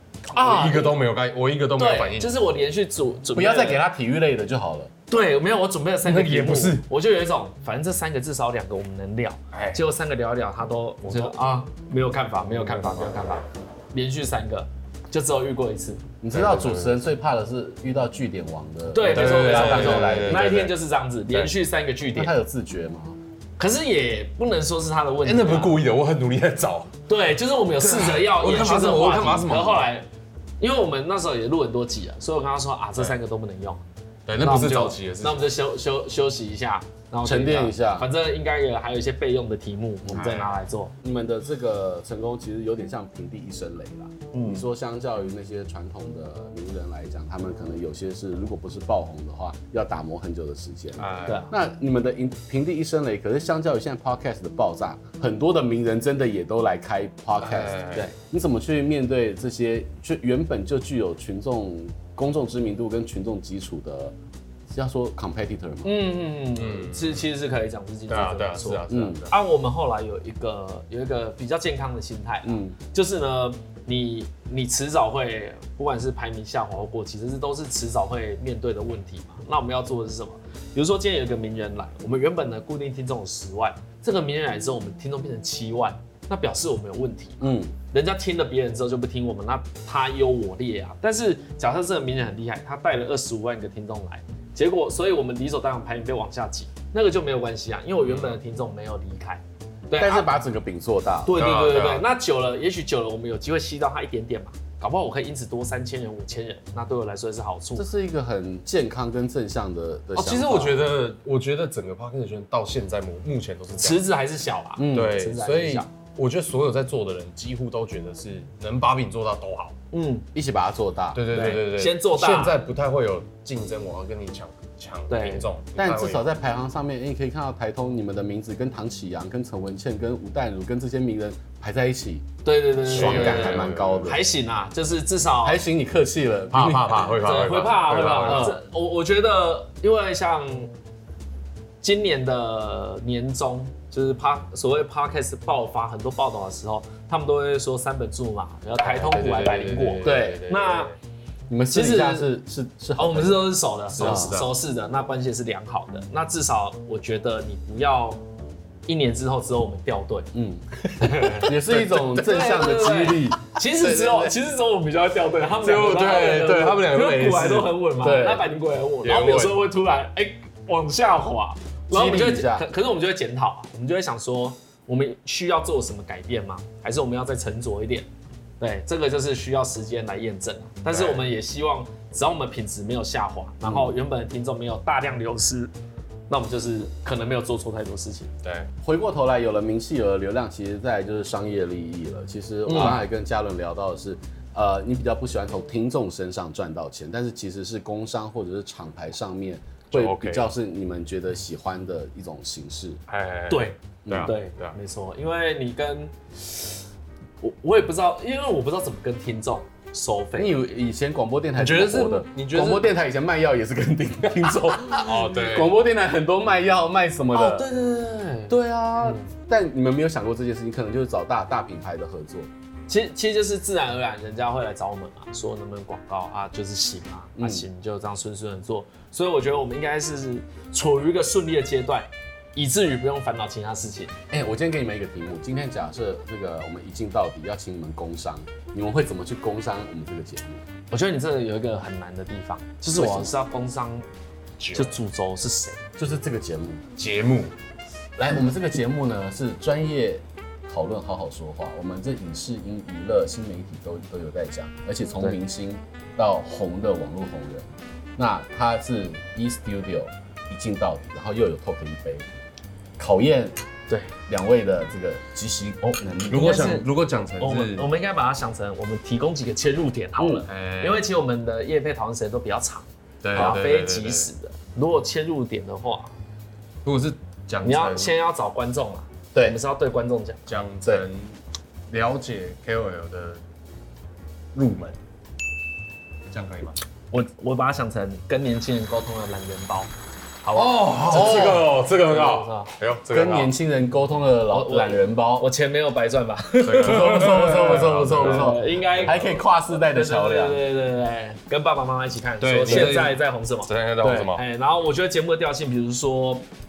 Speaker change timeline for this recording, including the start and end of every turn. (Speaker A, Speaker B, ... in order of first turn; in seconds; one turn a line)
Speaker A: 0.3-1.0
Speaker B: 0.3-2.3
Speaker A: 1.7-3.8
Speaker C: 3.3-4.9
Speaker A: 5.1-16.1
Speaker B: 6.0-6.8
Speaker B: 9.5-9.8
Speaker B: 11.0-11.3
Speaker B: 12.5-13.1
Speaker C: 16.2-20.5
Speaker B: 16.3-17.0
Speaker A: 18.9-22.3
Speaker B: 19.1-20.8
Speaker C: 22.1-23.2
Speaker A: 23.6-25.8
Speaker B: 25.2-26.9
Speaker A: 27.1-30.1
Speaker B: 27.8-29.9
Speaker A: 30.6-33.8
Speaker B: 34.3-35.4
Speaker A: 34.4-40.9
Speaker C: 37.2-38.1
Speaker B: 40.1-40.6
Speaker C: 41.0-64.1
Speaker A: 44.3-44.6
Speaker B: 51.0-51.5
Speaker A: 51.2-51.5
Speaker B: 57.4-58.1
Speaker C: 64.7-66.0
Speaker A: 65.8-100.3
Speaker B: 66.5-67.2
Speaker B: 68.1-69.3
Speaker C: 68.9-69.3
Speaker C: 72.4-72.8
Speaker C: 87.4-87.7
Speaker B: 98.0-98.4
Speaker C: 100.0-101.4
Speaker A: 101.2-107.9
Speaker B: 101.3-102.0
Speaker C: 107.8-110.9
Speaker B: 110.2-114.0
Speaker A: 113.8-115.9
Speaker C: 114.8-115.2
Speaker B: 114.9-119.7
Speaker A: 119.9-120.2
Speaker C: 120.3-121.6
Speaker B: 121.1-126.2
Speaker A: 121.3-122.6
Speaker A: 125.1-125.5
Speaker C: 125.8-132.3
Speaker A: 132.4-135.6
Speaker C: 132.8-134.2
Speaker B: 132.9-134.1
Speaker C: 135.4-137.2
Speaker B: 136.5-138.6
Speaker A: 137.2-140.7
Speaker C: 138.2-138.6
Speaker A: 141.8-150.9
Speaker B: 148.8-150.9
Speaker C: 150.0-150.4
Speaker C: 151.5-154.3
Speaker A: 151.7-152.3
Speaker A: 153.0-158.2
Speaker B: 153.9-154.5
Speaker A: 158.9-160.3
Speaker C: 160.3-160.6
Speaker B: 160.8-162.2
Speaker A: 161.0-161.5
Speaker C: 161.3-163.4
Speaker A: 162.1-178.1
Speaker B: 163.7-164.3
Speaker B: 165.6-167.8
Speaker C: 168.0-168.5
Speaker B: 169.0-169.6
Speaker C: 171.9-172.7
Speaker A: 178.6-185.7
Speaker B: 180.9-181.2
Speaker C: 183.6-183.9
Speaker A: 186.3-188.3
Speaker B: 188.4-188.7
Speaker C: 188.8-203.0
Speaker A: 192.7-193.0
Speaker B: 192.7-193.0
Speaker B: 199.9-200.5
Speaker B: 203.1-204.7
Speaker A: 203.5-206.8
Speaker C: 204.0-204.3
Speaker A: 207.4-210.5
Speaker C: 210.3-217.7
Speaker B: 211.6-212.9
Speaker B: 215.0-215.7
Speaker A: 217.3-219.3
Speaker C: 218.5-222.5
Speaker A: 222.9-234.1
Speaker C: 227.3-227.6
Speaker C: 234.3-240.6
Speaker A: 240.9-244.1
Speaker C: 242.9-243.3
Speaker B: 244.6-244.9
Speaker A: 244.7-245.8
Speaker C: 246.0-246.8
Speaker B: 247.0-247.5
Speaker C: 248.2-262.2
Speaker C: 263.0-263.6
Speaker C: 264.3-266.5
Speaker B: 266.3-267.9
Speaker A: 266.3-266.9
Speaker A: 267.4-276.1
Speaker C: 270.2-270.4
Speaker B: 270.5-271.0
Speaker B: 273.2-274.3
Speaker B: 276.8-278.1
Speaker A: 277.6-280.6
Speaker B: 280.5-281.4
Speaker B: 281.9-283.4
Speaker B: 284.5-285.0
Speaker B: 286.3-286.8
Speaker A: 287.1-289.9
Speaker A: 290.4-292.7
Speaker B: 290.5-293.5
Speaker C: 291.1-291.7
Speaker C: 293.1-295.5
Speaker A: 294.5-306.4
Speaker B: 296.6-299.3
Speaker C: 296.8-300.6
Speaker B: 302.4-304.4
Speaker C: 302.6-303.0
Speaker C: 304.0-304.3